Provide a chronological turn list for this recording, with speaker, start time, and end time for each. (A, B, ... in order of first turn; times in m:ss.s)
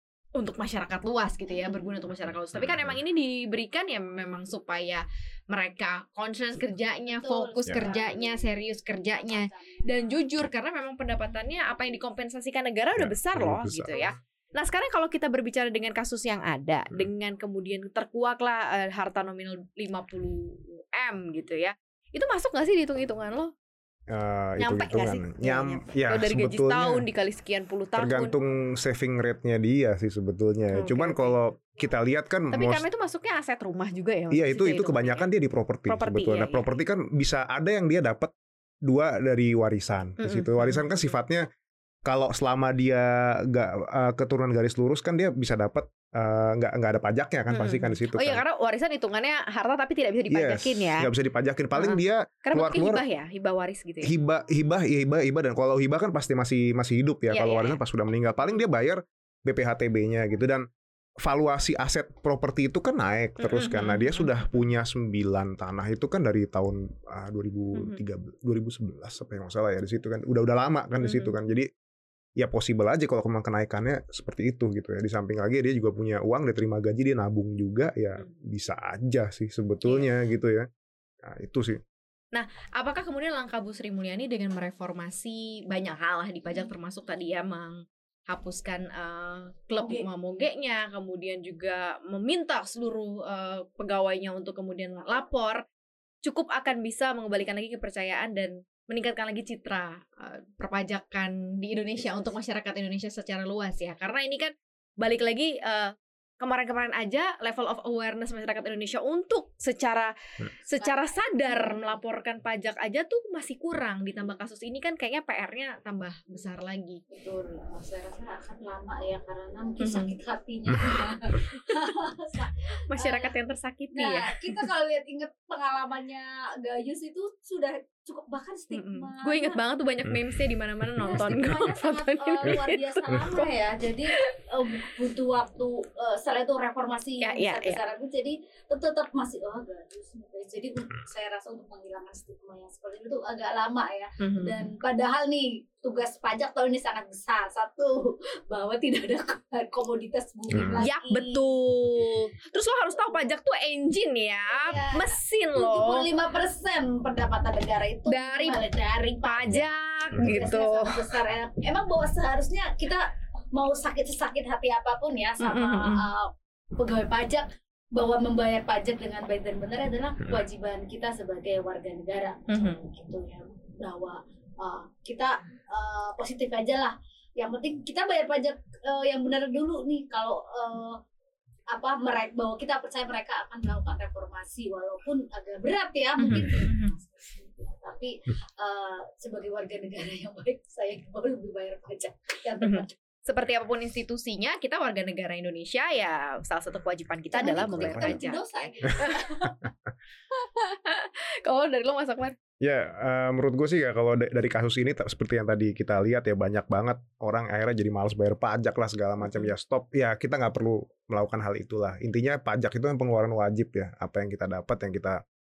0:00.4-0:23.5 A
0:02.5-0:03.0 B
0:07.1-0:10.1 C
0:07.7-0:07.9 B
0:13.0-0:14.1 B
0:24.1-0:27.0 B
0:24.6-0:28.3 A
0:28.0-0:32.9 B
0:30.7-0:31.4 A
0:32.5-0:35.3 A
0:34.3-0:38.3 B
0:35.9-0:36.8 A
0:38.9-0:41.4 B
0:40.2-0:41.1 A
0:42.1-0:48.4 B
0:47.5-0:51.1 A
0:50.3-0:53.0 B
0:51.8-0:54.1 A
0:54.0-1:00.6 B
0:57.3-0:57.8 A
1:01.2-1:11.7 B
1:03.4-1:04.5 A
1:07.7-1:08.0 A
1:11.0-1:11.3 A
1:12.4-1:20.7 B
1:19.8-1:20.1 A
1:21.2-1:21.8 B
1:22.3-1:27.8 A
1:28.3-1:35.6 A
1:29.8-1:30.1 C
1:36.2-1:45.9 A
1:46.4-1:50.1 A
1:50.6-1:57.0 A
1:50.8-1:52.0 C
1:57.1-2:03.3 C
1:59.8-2:00.1 A
2:02.9-2:04.5 A
2:03.9-2:09.6 C
2:08.7-2:13.5 A
2:11.0-2:31.4 C
2:17.2-2:17.8 A
2:24.2-2:24.7 A
2:30.5-2:30.8 B
2:30.8-2:36.1 A
2:34.5-3:01.0 C
2:38.1-2:38.6 A
2:39.1-2:40.9 A
2:45.4-2:46.0 A
2:52.5-2:52.8 A
3:01.7-3:12.9 C
3:06.2-3:06.9 A
3:12.6-3:19.5 A
3:17.3-3:19.5 C
3:17.7-3:18.2 B
3:20.3-3:22.4 A
3:22.6-3:35.2 B
3:29.2-3:29.5 A